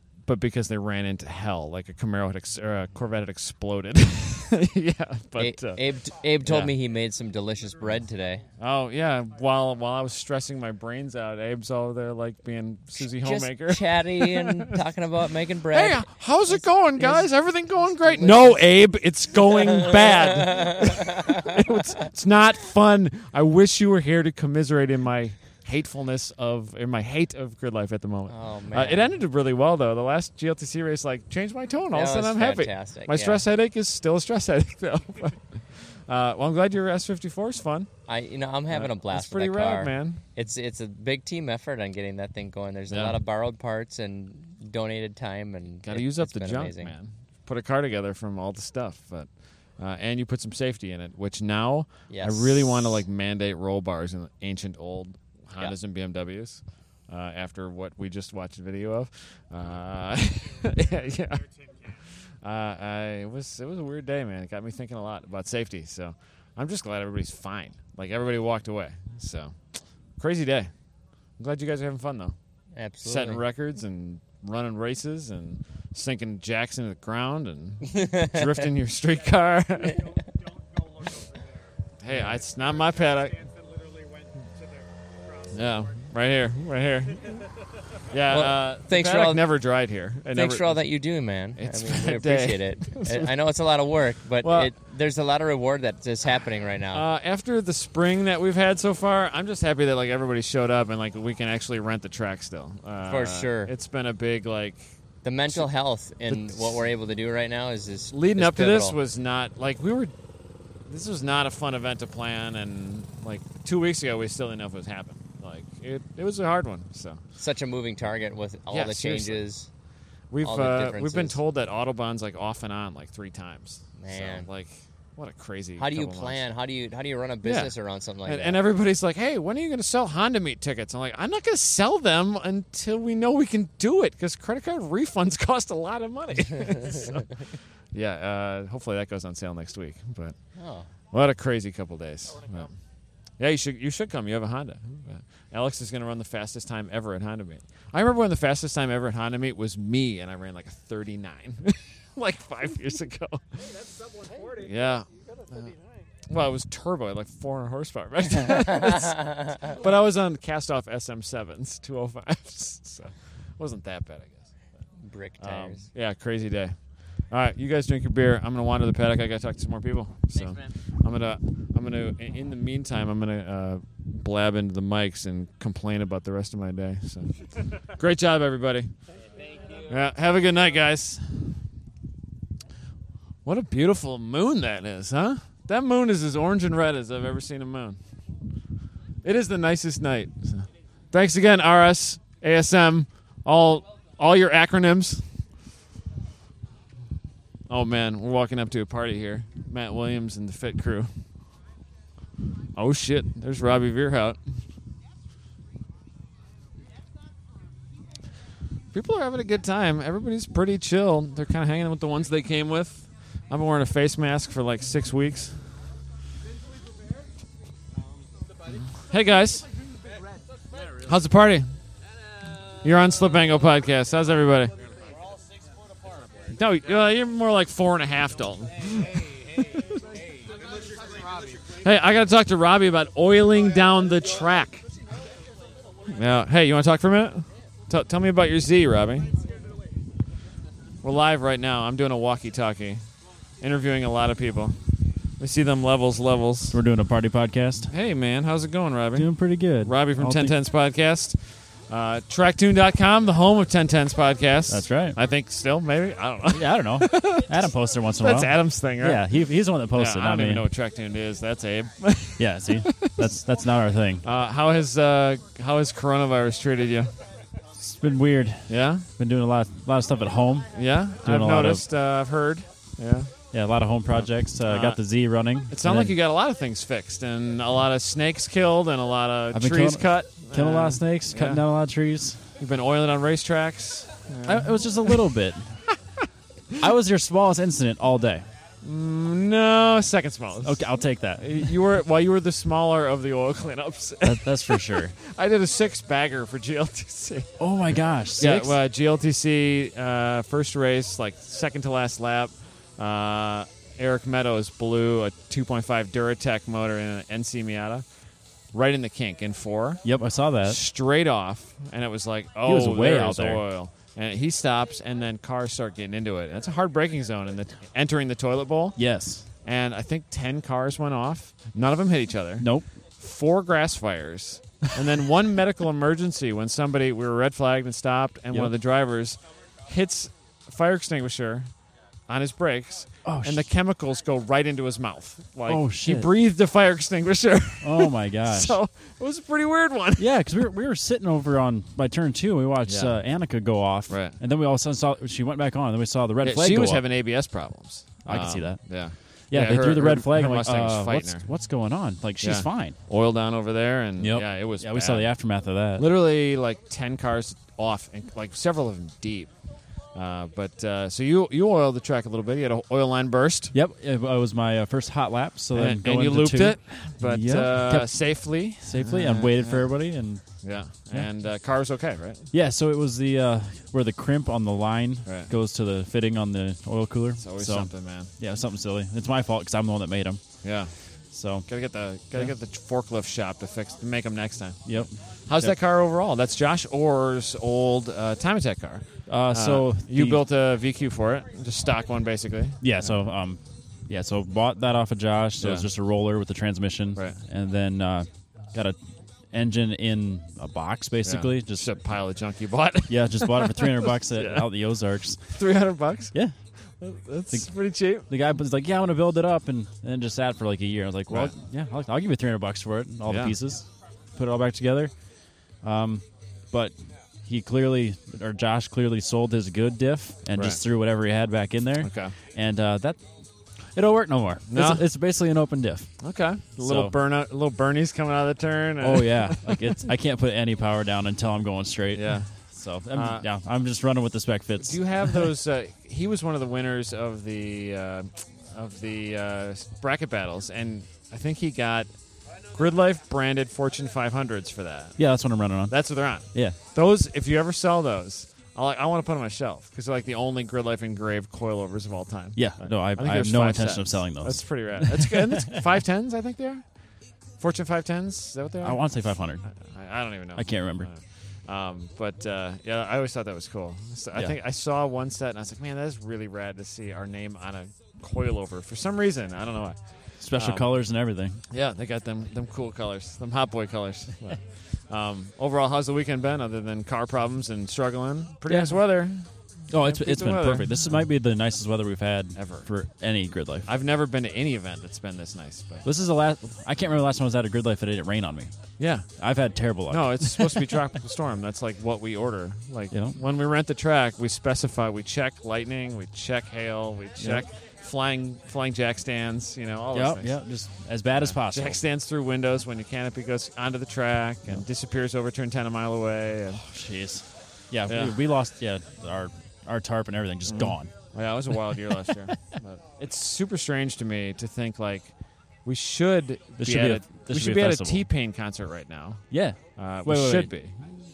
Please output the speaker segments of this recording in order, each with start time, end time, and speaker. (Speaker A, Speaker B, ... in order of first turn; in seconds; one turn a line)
Speaker A: 0.2-6.7
Speaker B: 5.4-8.4
Speaker A: 8.6-14.8
Speaker B: 12.9-17.3
Speaker A: 15.7-37.9
Speaker B: 17.8-18.6
Speaker B: 19.6-21.5
Speaker B: 28.3-29.2
Speaker B: 31.9-33.4
Speaker B: 38.1-46.9
Speaker A: 38.7-40.2
Speaker A: 42.9-43.2
Speaker A: 45.8-61.5
Speaker B: 52.1-52.8
Speaker C: 60.4-62.0
Speaker A: 62.3-70.7
Speaker A: 71.4-72.3
Speaker B: 72.7-73.4
Speaker A: 73.0-80.0
Speaker B: 77.8-78.7
Speaker C: 79.1-86.1
Speaker A: 82.0-83.4
Speaker A: 85.5-87.4
Speaker C: 87.1-87.7
Speaker A: 88.1-90.9
Speaker B: 88.3-89.5
Speaker B: 90.3-97.0
Speaker A: 91.5-93.3
Speaker A: 94.4-94.7
Speaker A: 96.9-104.9
Speaker B: 103.0-103.7
Speaker B: 105.2-109.0
Speaker A: 106.3-106.9
Speaker A: 108.1-110.1
Speaker A: 110.9-117.2
Speaker B: 117.4-119.7
Speaker A: 118.7-119.4
Speaker A: 120.3-126.5
Speaker B: 120.4-121.4
Speaker B: 124.0-124.5
Speaker B: 125.8-128.6
Speaker A: 127.4-137.2
Speaker A: 137.9-140.3
Speaker B: 140.6-140.9
Speaker A: 141.1-142.7
Speaker A: 143.4-153.6
Speaker C: 153.6-154.9
Speaker A: 154.6-155.7
Speaker A: 156.3-164.5
Speaker B: 158.8-159.7
Speaker B: 165.0-165.9
Speaker A: 165.4-166.8
Speaker A: 167.3-178.9
Speaker C: 179.3-180.1
Speaker A: 179.9-181.6
Speaker A: 183.4-188.0
Speaker A: 189.2-195.3
Speaker A: 197.7-201.1
Speaker A: 202.7-204.4
Speaker A: 208.9-215.7
Speaker A: 218.9-219.7
Speaker A: 221.0-221.7
Speaker A: 222.8-224.8
Speaker A: 226.5-229.8
Speaker C: 230.3-231.8
Speaker A: 231.8-234.8
Speaker A: 236.1-239.3
Speaker C: 239.4-239.8
Speaker A: 241.0-243.0
Speaker A: 243.6-246.8
Speaker D: 246.7-247.9
Speaker A: 247.9-257.7
Speaker D: 249.1-250.6
Speaker D: 254.7-255.2
Speaker D: 256.5-260.6
Speaker A: 258.2-259.3
Speaker A: 259.9-263.2
Speaker D: 262.4-264.2
Speaker A: 264.2-267.1
Speaker D: 267.8-271.9
Speaker A: 268.7-269.1
Speaker A: 270.7-273.3
Speaker D: 273.5-276.1
Speaker A: 274.2-275.0
Speaker A: 275.7-281.6
Speaker D: 279.5-282.6
Speaker A: 282.6-285.2
Speaker D: 284.4-285.8
Speaker D: 286.8-288.5
Speaker A: 288.8-290.8
Speaker D: 290.6-291.7
Speaker A: 291.4-297.5
Speaker D: 294.2-295.1
Speaker D: 297.6-298.8
Speaker A: 298.4-308.1
Speaker A: 308.7-310.0
Speaker D: 310.0-310.8
Speaker A: 310.6-319.0
Speaker D: 312.6-313.6
Speaker D: 318.9-319.5
Speaker A: 319.6-322.7
Speaker D: 322.6-322.9
Speaker A: 323.2-331.7
Speaker A: 332.3-340.4
Speaker D: 333.2-333.6
Speaker D: 335.7-336.3
Speaker D: 337.8-338.8
Speaker D: 340.2-347.0
Speaker A: 342.9-343.1
Speaker A: 344.1-344.4
Speaker A: 346.4-351.4
Speaker D: 348.2-353.0
Speaker A: 352.4-355.3
Speaker D: 354.8-356.1
Speaker A: 356.0-359.5
Speaker A: 360.1-363.7
Speaker D: 363.7-370.5
Speaker A: 365.7-369.9
Speaker A: 370.6-372.5
Speaker D: 372.5-380.4
Speaker A: 377.4-378.3
Speaker A: 380.6-380.9
Speaker D: 381.3-381.7
Speaker A: 381.7-393.1
Speaker D: 384.8-385.8
Speaker D: 389.3-390.4
Speaker D: 392.8-399.0
Speaker A: 395.6-395.9
Speaker D: 399.5-401.9
Speaker A: 401.2-404.7
Speaker D: 403.1-405.6
Speaker A: 405.5-406.3
Speaker A: 406.9-408.3
Speaker D: 408.3-423.2
Speaker A: 411.3-411.5
Speaker A: 413.2-413.6
Speaker A: 420.5-420.8
Speaker A: 422.0-422.3
Speaker D: 423.8-426.1
Speaker A: 424.7-425.0
Speaker A: 426.2-430.0
Speaker D: 426.8-427.1
Speaker D: 429.0-435.4
Speaker A: 432.1-432.5
Speaker A: 433.1-433.4
Speaker A: 434.8-442.1
Speaker A: 442.7-445.2
Speaker D: 445.2-446.0
Speaker A: 445.9-457.0
Speaker D: 446.5-446.8
Speaker D: 452.5-455.8
Speaker A: 457.6-470.9
Speaker D: 458.8-459.7
Speaker D: 460.6-461.1
Speaker D: 470.4-471.6
Speaker A: 471.7-481.2
Speaker D: 478.7-479.0
Speaker D: 479.9-483.9
Speaker A: 482.6-482.9
Speaker A: 483.9-486.0
Speaker D: 486.0-488.7
Speaker A: 489.0-489.3
Speaker D: 489.4-490.9
Speaker A: 490.1-500.6
Speaker D: 493.1-493.4
Speaker D: 500.1-502.0
Speaker A: 501.4-506.8
Speaker D: 506.8-511.1
Speaker A: 508.1-508.4
Speaker A: 510.6-515.3
Speaker A: 515.8-521.0
Speaker D: 516.8-518.3
Speaker D: 519.5-520.8